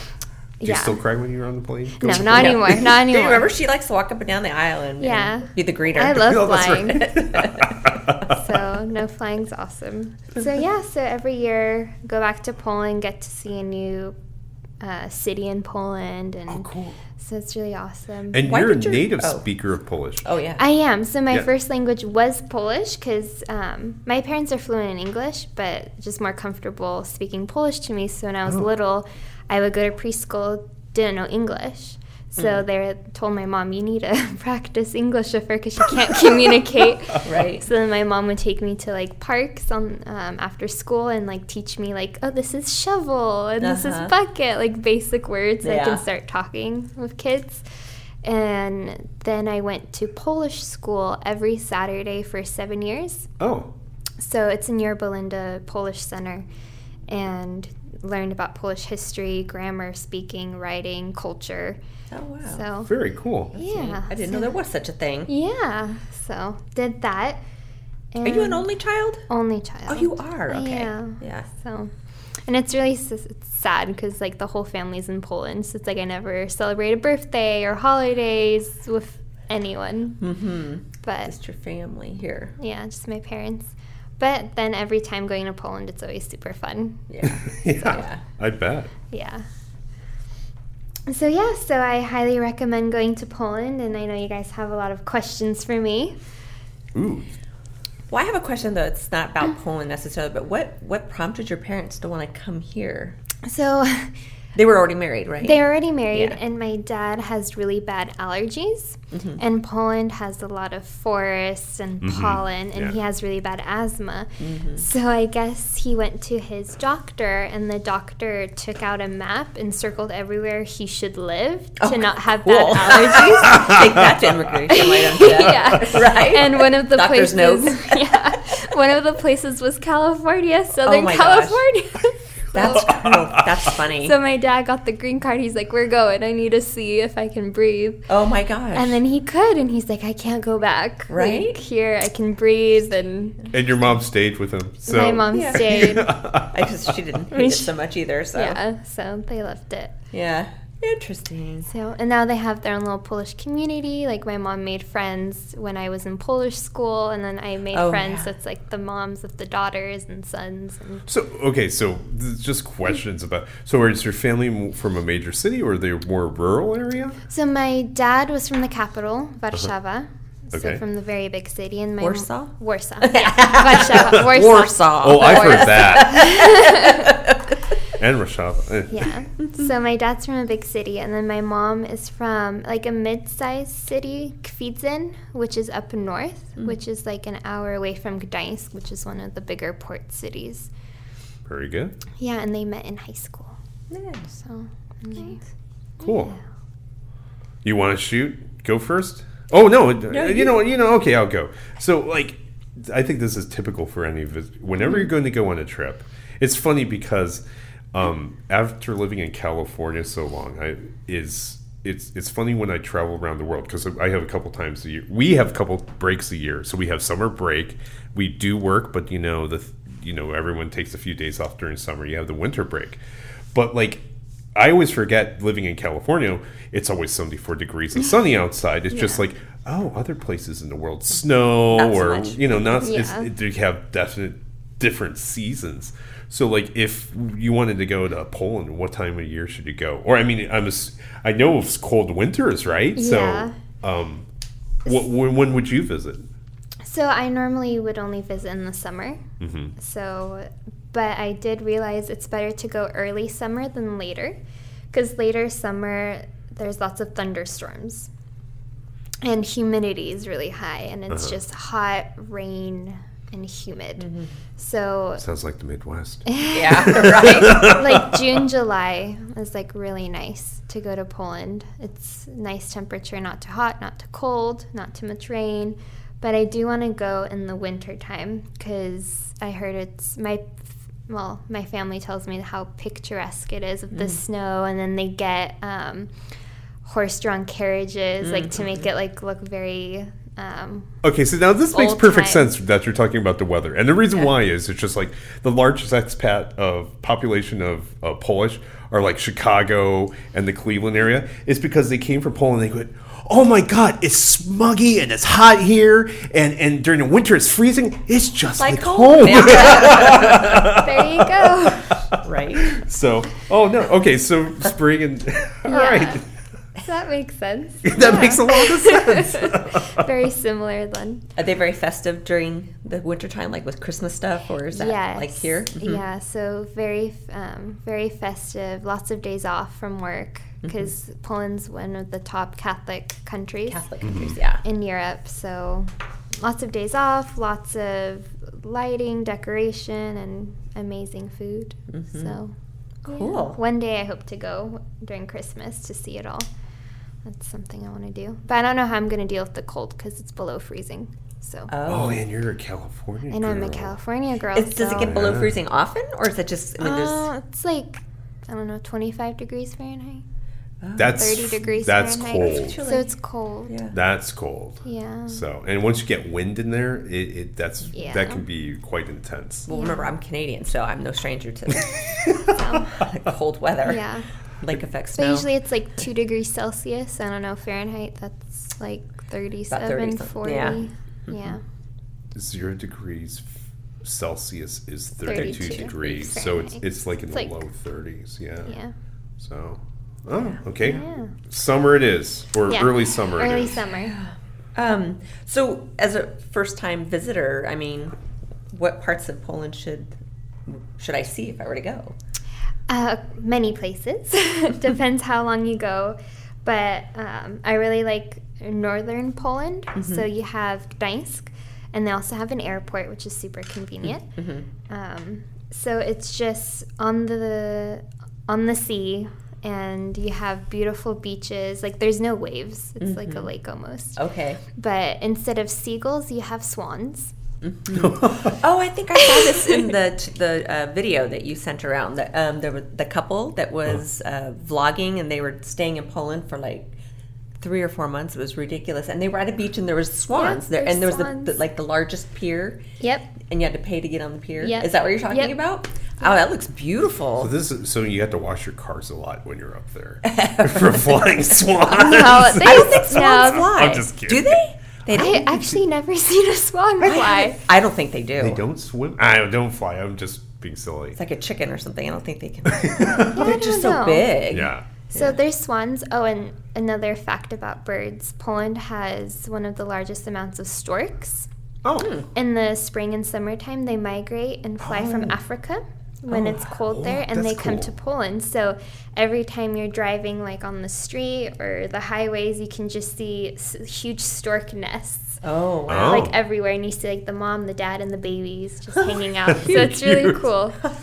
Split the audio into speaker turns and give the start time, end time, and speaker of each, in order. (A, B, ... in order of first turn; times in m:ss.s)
0:00.6-0:01.0 A
0:00.6-0:02.8 B
0:02.0-0:03.5 A
0:02.3-0:06.3 C
0:05.0-0:07.1 A
0:06.1-0:08.4 B
0:07.0-0:07.9 C
0:08.3-0:14.1 A
0:14.8-0:18.4 A
0:16.5-0:17.0 B
0:18.3-0:20.2 B
0:18.4-0:19.4 C
0:20.2-0:20.6 C
0:20.6-0:47.6 A
0:32.4-0:32.6 C
0:37.2-0:37.6 C
0:43.6-0:44.1 C
0:45.6-0:46.0 C
0:48.2-0:53.3 A
0:53.4-0:53.7 B
0:54.2-0:56.4 A
0:57.1-1:01.8 A
1:02.1-1:02.6 C
1:02.5-1:02.9 A
1:02.9-1:03.5 B
1:03.5-1:04.5 A
1:03.6-1:05.3 C
1:05.3-1:07.4 A
1:08.1-1:08.6 A
1:08.2-1:09.2 C
1:09.3-1:11.9 A
1:09.9-1:11.5 C
1:12.4-1:20.2 A
1:20.2-1:22.5 C
1:21.0-1:21.3 A
1:22.6-1:27.0 A
1:27.1-1:28.2 C
1:27.2-1:28.9 B
1:29.1-1:29.4 A
1:31.1-1:36.2 A
1:36.9-1:37.3 B
1:38.1-1:43.2 C
1:43.4-1:44.1 A
1:44.5-1:46.4 C
1:45.4-2:03.8 A
1:49.1-1:49.4 C
1:52.0-1:53.0 B
1:54.4-1:54.8 C
2:01.8-2:07.9 C
2:03.4-2:04.1 B
2:04.7-2:12.9 A
2:10.8-2:11.6 C
2:12.5-2:14.2 C
2:12.8-2:13.4 B
2:14.0-2:18.1 A
2:18.1-2:19.0 C
2:18.7-2:23.5 A
2:21.1-2:21.6 C
2:23.5-2:26.9 B
2:24.8-2:26.1 A
2:25.3-2:25.6 C
2:26.5-2:28.6 C
2:27.3-2:27.7 A
2:28.3-2:29.9 A
2:30.1-2:31.7 C
2:31.7-2:41.0 A
2:37.7-2:38.3 C
2:41.1-2:47.2 B
2:47.3-2:57.2 A
2:50.5-2:50.8 B
2:52.0-2:57.5 C
2:55.0-2:56.3 B
2:58.0-2:59.1 B
2:58.9-3:10.7 A
3:11.4-3:11.9 B
3:12.2-3:13.6 A
3:13.9-3:14.3 C
3:14.4-3:15.4 A
3:16.0-3:16.4 A
3:16.0-3:16.3 B
3:17.6-3:43.0 B
3:20.1-3:20.5 C
3:43.5-3:44.0 B
3:44.5-4:04.2 B
3:48.9-3:49.2 A
3:51.7-3:52.8 C
3:52.8-3:53.3 A
4:03.0-4:03.5 A
4:04.8-4:06.3 B
4:06.8-4:09.2 A
4:09.4-4:09.7 B
4:09.8-4:14.4 A
4:14.9-4:18.1 A
4:19.2-4:25.2 A
4:21.1-4:21.3 B
4:24.0-4:24.3 C
4:25.2-4:26.2 B
4:26.2-4:46.1 A
4:26.5-4:27.8 C
4:26.8-4:28.0 B
4:46.8-4:50.9 A
4:48.2-4:48.9 C
4:51.0-5:16.2 B
4:51.7-4:52.5 A
5:08.6-5:10.6 C
5:10.6-5:12.0 A
5:12.2-5:12.8 C
5:15.6-5:16.2 A
5:16.8-5:21.2 A
5:17.8-5:20.0 B
5:21.4-5:26.0 C
5:24.7-5:33.8 A
5:30.6-5:30.9 C
5:33.7-5:34.6 C
5:34.0-5:34.4 B
5:34.6-5:35.9 A
5:36.4-5:46.5 A
5:41.9-5:42.3 C
5:43.1-5:43.6 C
5:47.2-5:51.7 A
5:51.7-5:52.2 C
5:51.8-5:53.9 B
5:53.3-5:55.3 A
5:54.5-5:57.3 C
5:54.9-5:55.6 B
5:56.8-6:00.2 A
6:00.8-6:01.3 C
6:01.0-6:02.8 B
6:01.1-6:03.7 A
6:02.4-6:03.1 C
6:03.7-6:03.9 C
6:03.9-6:09.7 B
6:04.8-6:05.4 A
6:07.9-6:08.4 A
6:09.7-6:14.0 C
6:09.7-6:10.1 A
6:11.9-6:12.5 B
6:12.5-6:13.0 A
6:13.8-6:14.2 A
6:14.6-6:15.5 C
6:15.2-6:21.6 A
6:19.7-6:21.5 C
6:22.3-6:28.7 B
6:25.2-6:27.6 A
6:25.3-6:26.2 C
6:28.6-6:28.9 A
6:29.4-6:33.8 B
6:30.8-6:31.3 A
6:32.7-6:34.1 A
6:34.1-6:38.2 C
6:38.7-6:40.1 C
6:40.7-6:42.1 C
6:42.9-6:54.3 A
6:50.0-6:50.3 C
6:54.1-6:54.6 C
6:54.9-7:04.2 A
7:03.0-7:03.5 C
7:04.2-7:04.6 C
7:04.7-7:07.3 A
7:07.6-7:16.9 C
7:07.9-7:08.6 B
7:17.6-7:22.8 C
7:20.3-7:21.6 A
7:23.0-7:23.3 A
7:23.4-7:27.5 C
7:24.6-7:25.5 A
7:27.4-7:34.6 B
7:30.2-7:31.3 C
7:31.9-7:34.0 A
7:32.6-7:35.6 C
7:35.1-7:35.7 B
7:35.1-7:37.6 A
7:37.0-7:38.6 C
7:38.4-7:41.2 B
7:41.2-7:45.4 C
7:42.7-7:43.6 B
7:43.3-7:44.4 A
7:44.5-7:44.8 B
7:45.1-7:51.5 A
7:51.8-7:52.2 B
7:52.0-7:52.3 C
7:52.3-8:10.8 A
7:54.8-7:55.3 B
7:56.8-7:57.9 B
8:05.4-8:06.3 C
8:05.9-8:06.3 B
8:09.4-8:10.4 B